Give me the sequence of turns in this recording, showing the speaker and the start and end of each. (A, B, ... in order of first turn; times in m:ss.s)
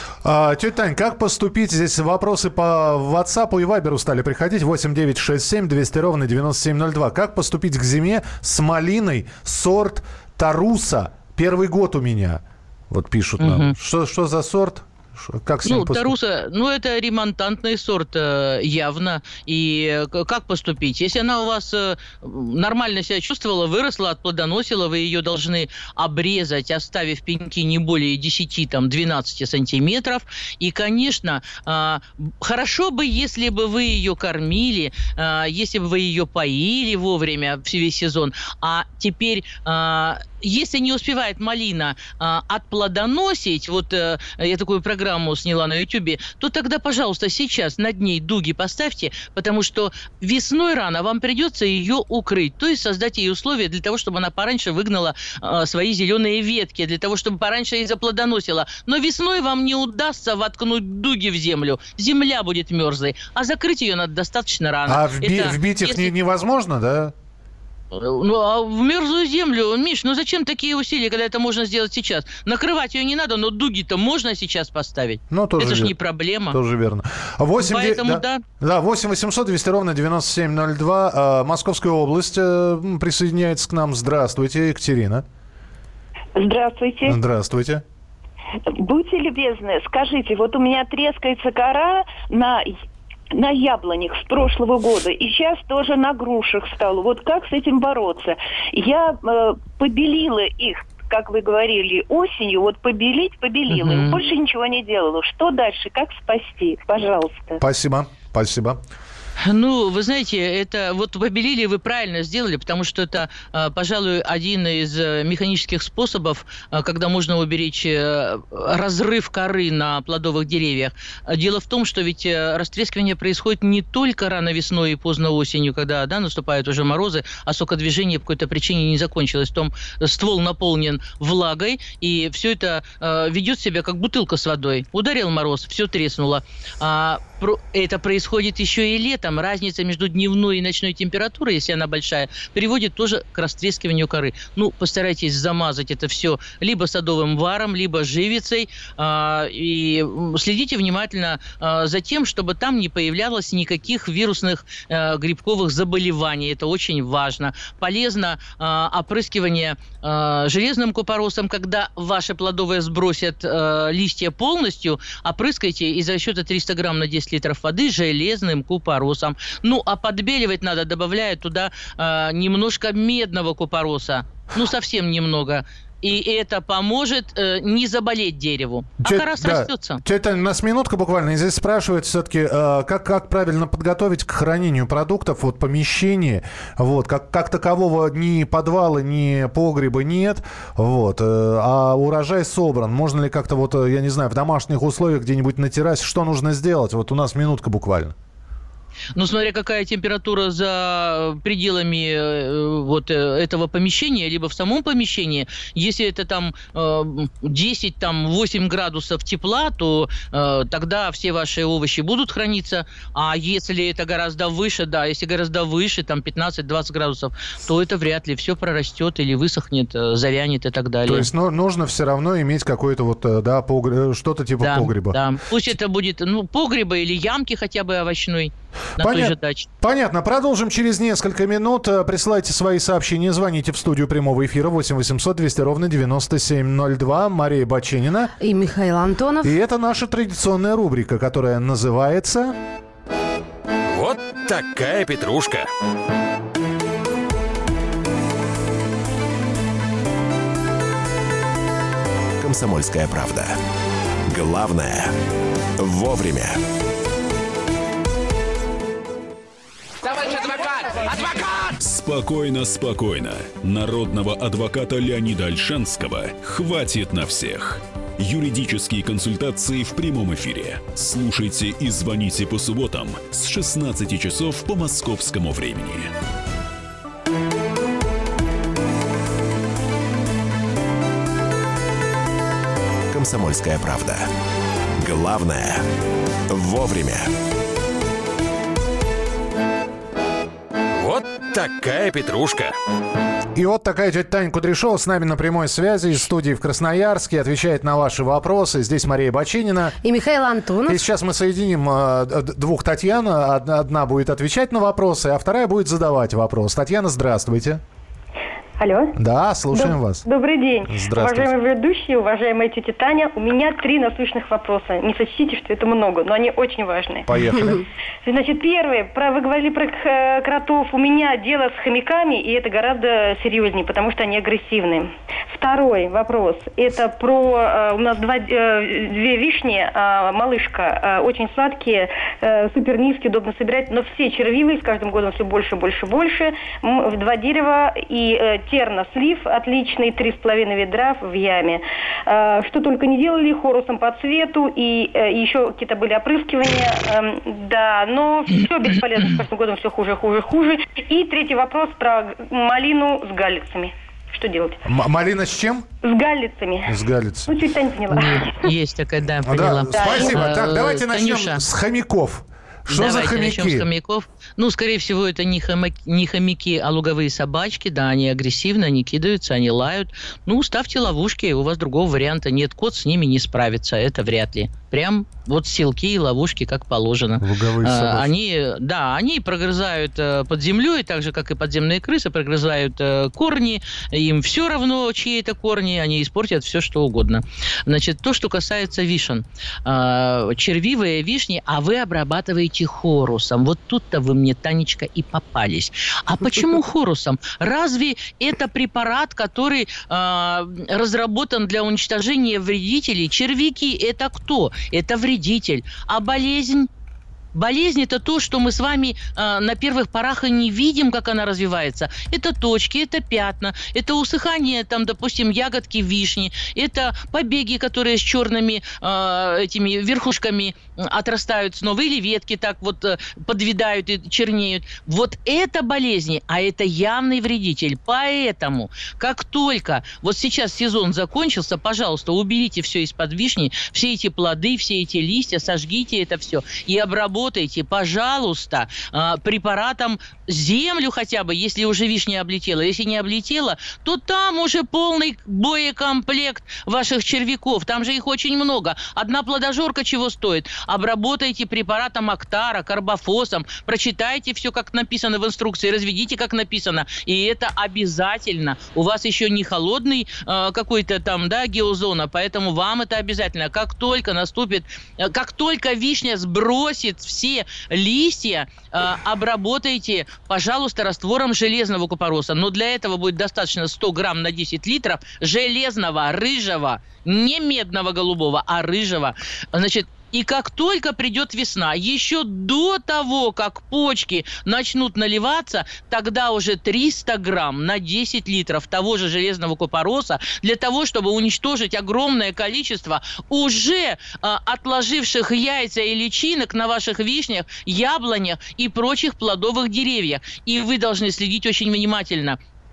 0:00.2-0:16.1 A
0:13.4-0:13.7 B
0:15.6-1:06.1 B
1:04.9-1:07.1 A
1:07.9-1:16.6 B
1:15.3-1:15.9 A
1:16.5-1:25.2 A
1:17.6-1:18.4 B
1:26.3-1:27.2 C
1:27.0-1:27.8 A
1:28.7-1:32.7 C
1:33.3-1:47.6 C
1:43.7-1:44.2 B
1:47.6-1:48.8 A
1:49.4-3:00.0 B
2:59.0-3:18.1 A
3:19.2-3:41.3 B
3:41.0-3:45.2 A
3:44.6-3:49.7 B
3:49.0-3:58.3 A
3:58.4-3:59.5 D
3:59.4-4:02.6 A
4:03.9-4:05.7 E
4:12.4-4:13.6 F
4:14.3-4:15.1 F
4:15.8-4:16.6 F
4:21.8-4:36.1 G
4:43.1-4:44.2 F
4:45.0-4:45.8 F
4:46.5-4:47.3 F
4:51.0-4:52.7 E
4:53.5-5:00.0 A
5:00.0-5:01.0 D
5:00.9-5:07.8 A
5:08.8-5:09.1 H
5:09.2-5:10.2 A
5:09.7-5:17.3 H
5:10.9-5:11.5 A
5:17.3-5:17.8 A
5:18.2-5:54.8 H
5:54.8-5:55.8 A
5:56.0-5:58.6 H
5:56.9-5:57.5 A
5:58.1-6:01.6 B
5:59.4-6:03.9 A
5:59.9-6:00.4 H
6:02.9-6:46.9 B
6:17.4-6:18.3 A
6:47.5-8:22.6 B